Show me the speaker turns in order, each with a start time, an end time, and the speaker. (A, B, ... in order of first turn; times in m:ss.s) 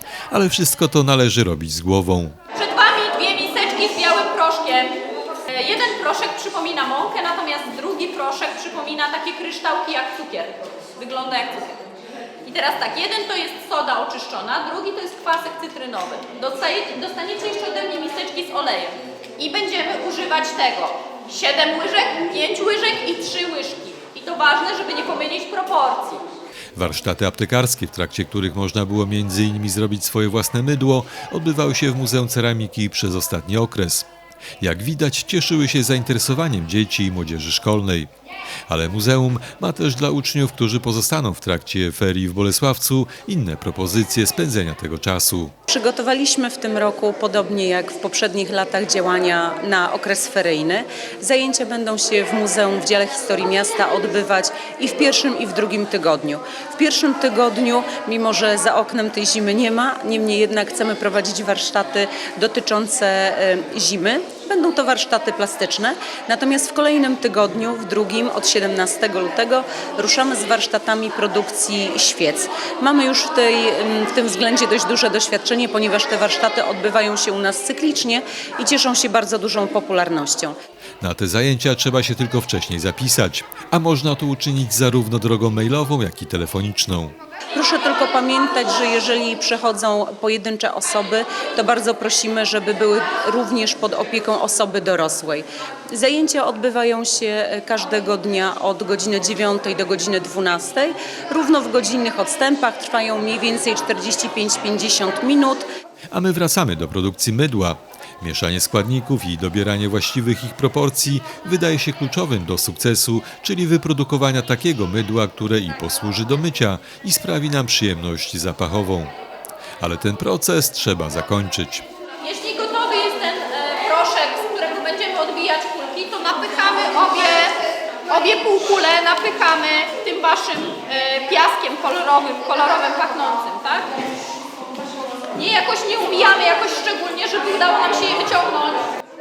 0:00.3-0:02.4 A
0:02.5-0:11.8 B
0:12.4-0:26.2 B
0:26.7-0:34.1 A
0:34.6-0:38.1 A
0:38.7-0:45.5 A
0:45.7-1:20.5 C
1:21.0-1:27.2 A
1:27.5-1:45.7 C
1:46.1-1:59.1 A
1:59.8-2:01.8 A
2:02.2-2:13.9 B
2:15.3-2:18.9 B